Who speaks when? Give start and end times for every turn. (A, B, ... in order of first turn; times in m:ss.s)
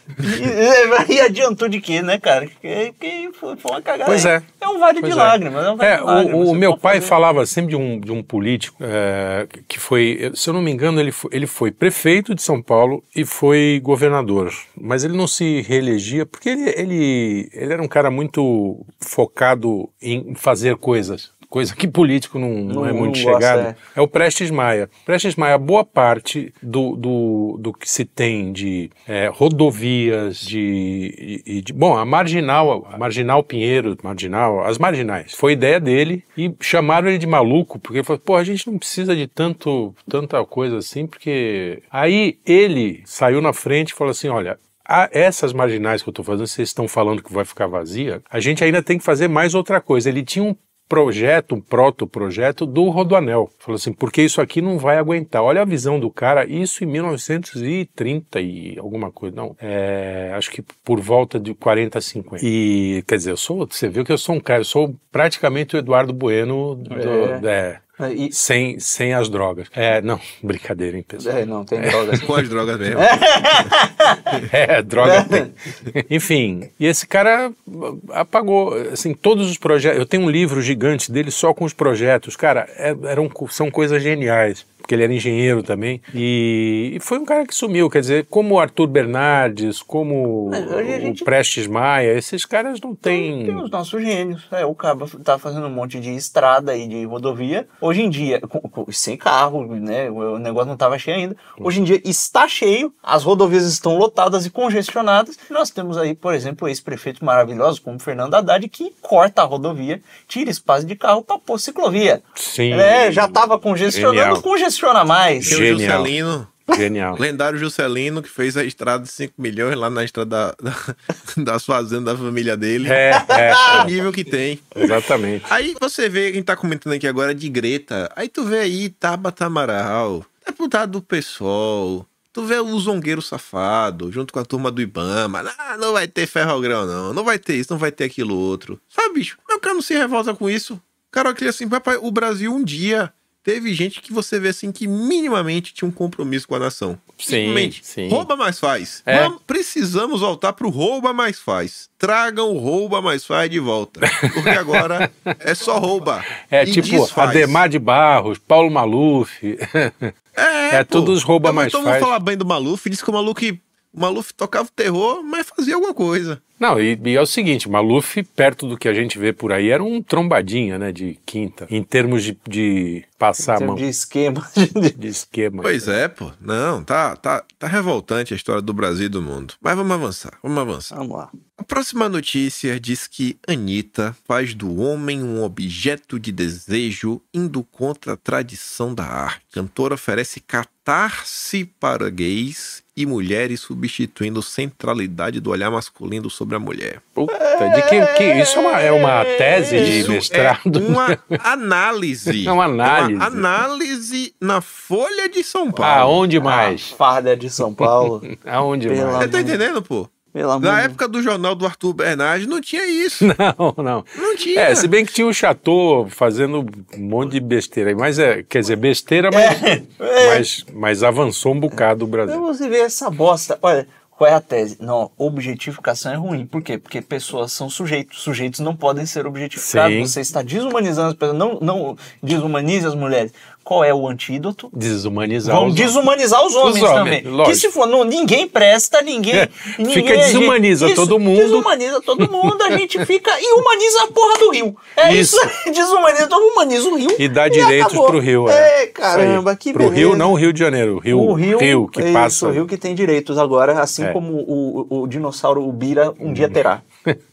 0:00.2-0:07.1 A
0:04.0-0:04.4 B
0:05.0-1:07.8 B
0:22.7-0:23.8 A
1:06.9-1:07.4 A
1:08.0-1:08.3 A
1:08.3-1:12.3 B
1:11.2-1:12.3 A
1:12.1-1:13.7 C
1:12.9-1:14.4 A
1:14.4-1:33.7 B
1:15.0-1:15.5 A
1:30.5-1:31.3 A
1:33.0-1:55.6 A
1:52.4-1:54.4 B
1:55.4-1:56.1 B
1:55.4-2:04.8 C
1:56.7-1:57.2 B
2:02.8-2:03.9 B
2:03.1-2:03.9 A
2:04.8-2:05.5 B
2:05.5-2:37.6 C
2:27.2-2:28.3 B
2:29.1-2:29.3 B
2:34.0-2:35.3 B
2:36.4-2:40.1 B
2:40.3-2:46.4 C
2:40.7-2:42.1 B
2:46.6-2:53.8 B
2:53.4-2:55.0 A
2:55.0-2:55.8 B
2:55.6-3:00.9 C
3:00.9-3:01.3 A
3:01.6-3:17.0 C
3:17.2-3:21.3 B
3:17.3-3:20.2 A
3:19.7-3:26.2 C
3:22.3-3:23.5 B
3:25.8-3:27.0 B
3:26.4-3:28.3 A
3:27.8-3:29.3 B
3:28.8-3:29.6 A
3:29.2-3:33.3 C
3:30.3-3:31.0 A
3:33.2-3:42.4 B
3:34.2-3:34.9 C
3:39.3-3:40.4 A
3:41.7-3:54.7 A
3:49.6-3:50.1 B
3:54.7-3:56.0 B
3:55.4-4:10.3 A
3:56.6-3:57.7 B
3:59.3-4:01.7 B
4:02.2-4:03.0 B
4:05.0-4:05.5 B
4:07.2-4:12.6 B
4:11.1-4:16.8 A
4:16.2-4:17.2 B